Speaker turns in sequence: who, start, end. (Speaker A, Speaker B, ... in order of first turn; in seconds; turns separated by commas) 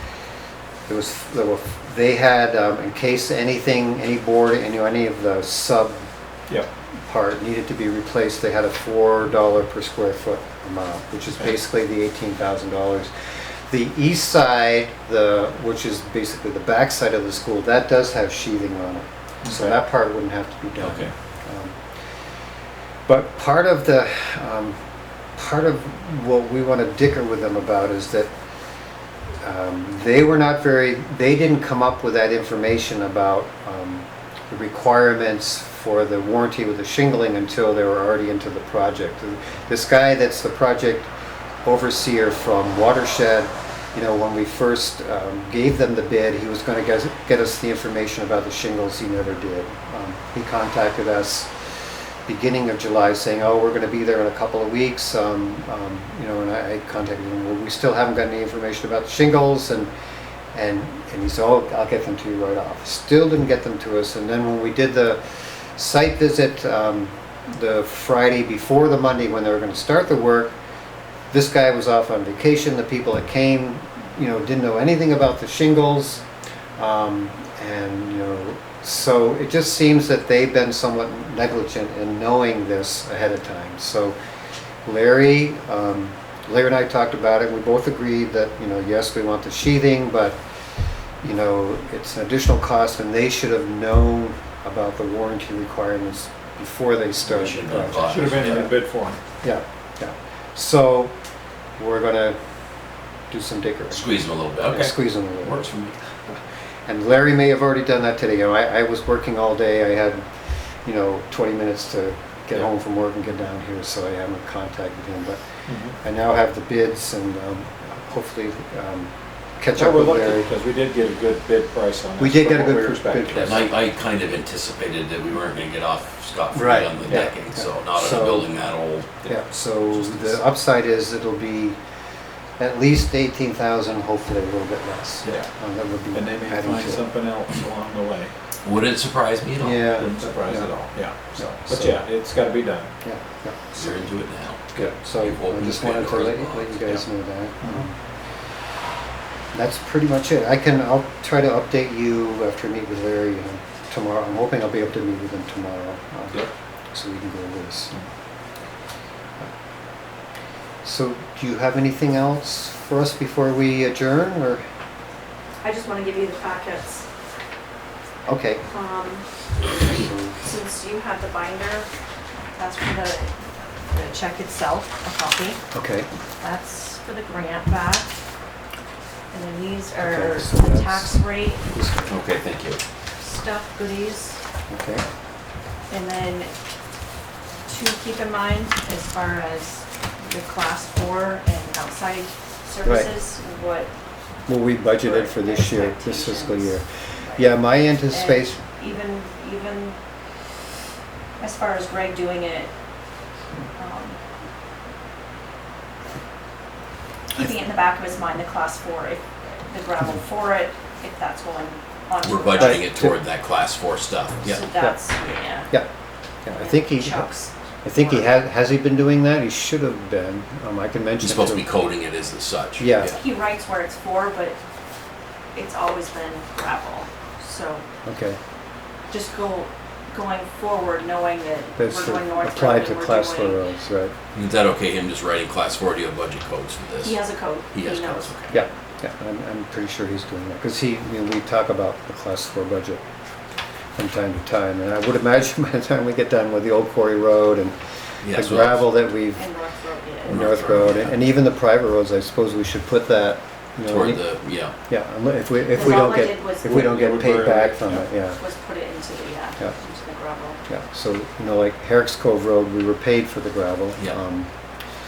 Speaker A: 0.9-6.1, Speaker A: 7.0-13.1, Speaker A: 13.7-21.8, Speaker B: 19.4-19.8, Speaker A: 23.1-24.8, Speaker A: 25.4-28.3, Speaker A: 29.4-41.1, Speaker A: 41.6-59.9, Speaker A: 60.5-70.5, Speaker A: 71.3-76.2, Speaker A: 76.8-84.2, Speaker A: 84.8-90.4, Speaker A: 91.2-98.7, Speaker C: 97.2-98.7, Speaker B: 98.0-99.2, Speaker A: 99.4-101.1, Speaker A: 101.8-102.4, Speaker A: 103.3-104.1, Speaker C: 103.9-106.0, Speaker A: 104.7-105.7, Speaker A: 106.9-110.3, Speaker A: 110.8-115.5, Speaker B: 115.7-116.0, Speaker A: 116.0-120.5, Speaker B: 119.7-123.7, Speaker A: 122.2-123.7, Speaker C: 123.4-129.2, Speaker A: 126.5-128.5, Speaker A: 129.2-131.8, Speaker C: 129.9-130.4, Speaker A: 132.6-137.1, Speaker B: 135.2-135.5, Speaker B: 136.1-138.3, Speaker C: 138.6-139.9, Speaker A: 139.6-140.7, Speaker B: 139.9-142.9, Speaker A: 141.3-142.0, Speaker A: 143.0-144.1, Speaker C: 143.7-146.8, Speaker A: 144.8-148.0, Speaker B: 147.6-147.9, Speaker A: 149.5-157.9, Speaker A: 160.8-164.6, Speaker D: 165.6-167.1, Speaker A: 168.2-168.6, Speaker D: 168.6-169.2, Speaker A: 169.7-170.4, Speaker D: 170.4-171.9, Speaker D: 172.5-173.3, Speaker D: 173.9-175.6, Speaker A: 175.7-176.1, Speaker D: 176.4-178.1, Speaker D: 179.3-181.6, Speaker A: 180.0-182.2, Speaker C: 182.1-182.8, Speaker D: 183.2-184.4, Speaker A: 184.7-185.0, Speaker D: 185.9-186.5, Speaker D: 187.7-193.9, Speaker A: 192.8-193.1, Speaker A: 194.5-198.6, Speaker D: 195.0-200.0, Speaker D: 201.4-202.7, Speaker D: 203.8-204.2, Speaker D: 207.3-212.9, Speaker C: 212.2-214.6, Speaker A: 212.6-213.2, Speaker D: 214.4-215.8, Speaker A: 214.7-215.0, Speaker A: 216.4-217.3, Speaker D: 216.6-218.3, Speaker A: 217.8-221.7, Speaker C: 221.2-223.2, Speaker A: 222.8-223.2, Speaker D: 223.1-224.6, Speaker D: 225.5-227.8, Speaker A: 228.0-228.4, Speaker D: 229.1-233.7, Speaker A: 231.8-234.1, Speaker C: 234.3-238.5, Speaker D: 237.0-238.6, Speaker A: 238.5-243.0, Speaker A: 244.0-247.8, Speaker C: 248.2-248.9, Speaker A: 248.3-249.4, Speaker D: 249.3-250.4, Speaker A: 250.3-254.2, Speaker C: 250.3-251.1, Speaker C: 253.9-254.7, Speaker A: 254.9-258.4, Speaker D: 255.7-256.8, Speaker B: 256.6-258.1, Speaker D: 258.3-260.6, Speaker A: 260.7-264.5